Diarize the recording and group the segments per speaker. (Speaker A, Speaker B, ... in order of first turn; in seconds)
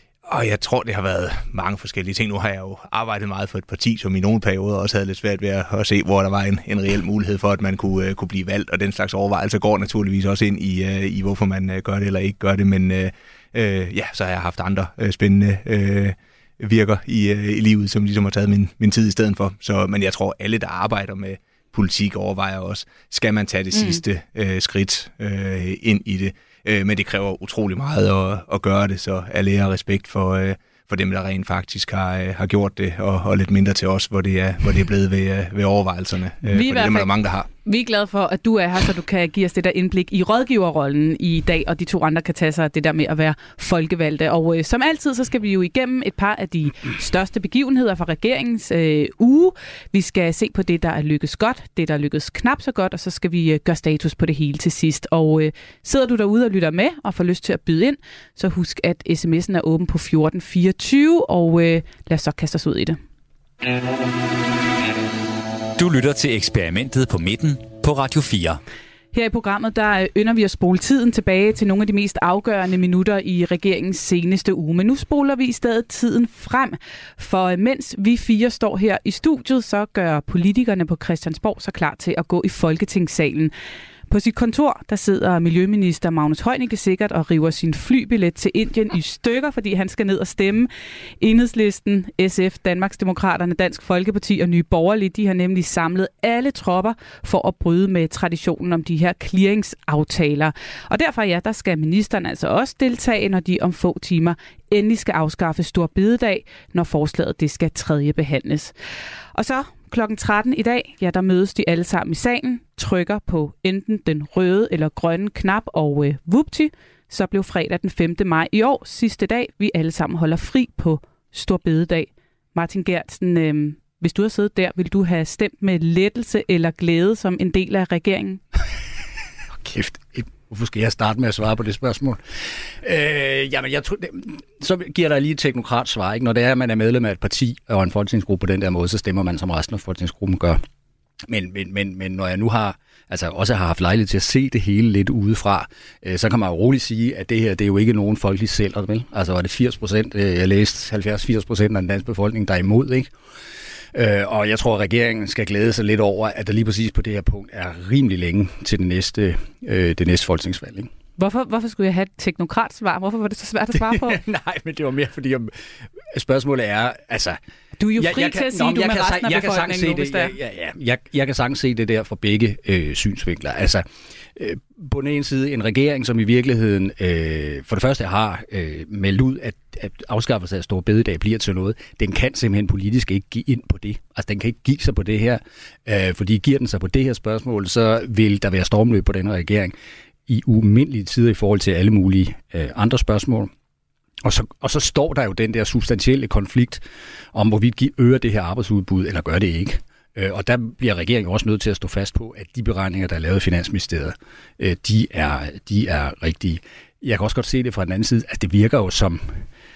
Speaker A: 0.2-37.5
Speaker B: 23.7-24.0, 36.5-37.1, 37.6-63.0, 69.1-83.5, 84.1-108.7, 109.3-128.4, 161.2-164.2, 167.8-170.3
Speaker C: 65.8-68.6
Speaker D: 129.6-140.6, 141.3-153.1, 153.9-160.9, 163.8-167.4, 167.9-173.8, 174.4-189.7, 190.3-193.5, 194.2-209.4